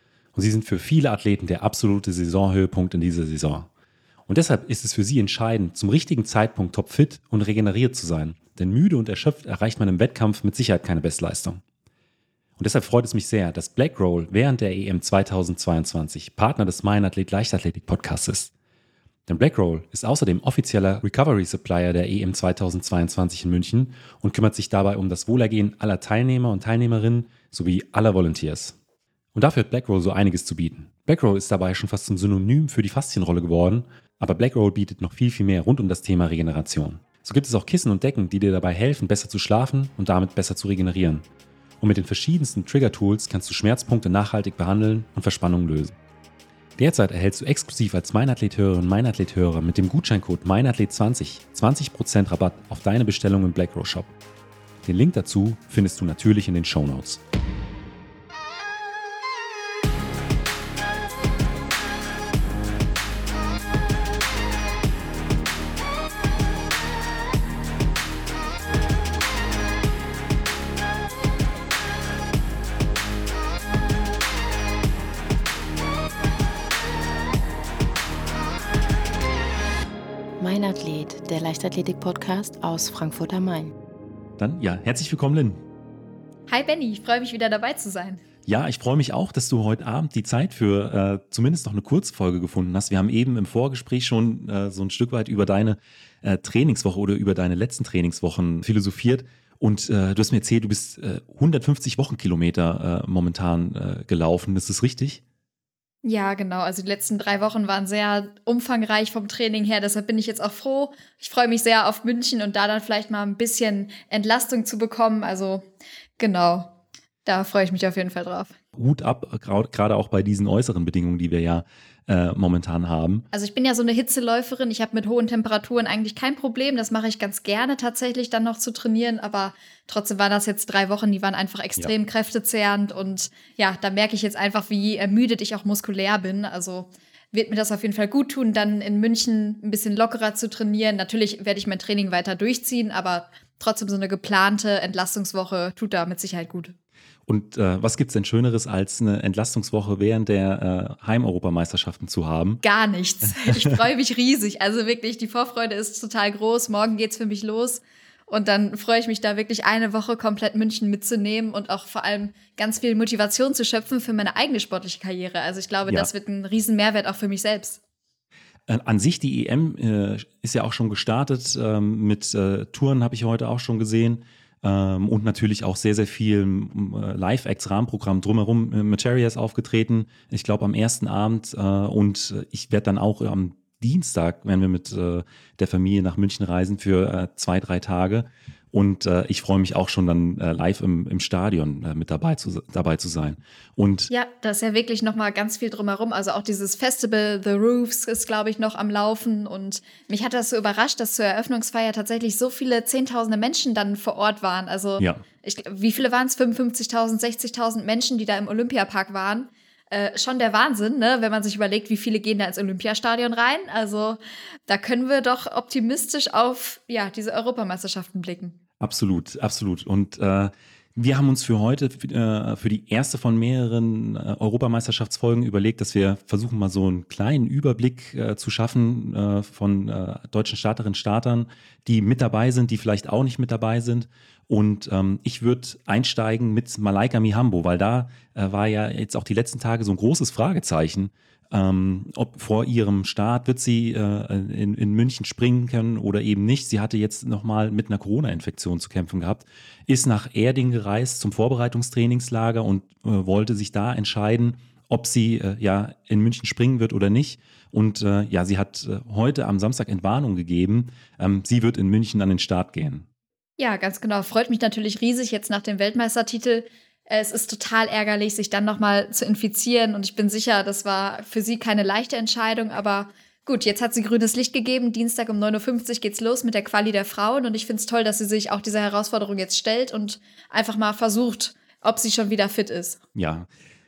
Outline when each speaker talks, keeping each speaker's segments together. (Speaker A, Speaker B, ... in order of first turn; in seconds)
Speaker A: 0.3-3.7, 4.3-11.6, 12.6-18.5, 19.3-28.8, 29.4-41.2, 41.8-46.0, 46.8-54.1, 54.8-57.2, 84.4-85.6, 88.5-105.2, 118.8-123.2, 147.3-152.6, 168.7-194.1, 218.8-263.1, 283.1-283.5
Speaker B: 80.4-83.7
Speaker C: 86.5-88.2, 106.0-116.7, 117.2-118.5, 123.3-146.7, 152.6-167.8, 194.1-218.6, 263.6-283.0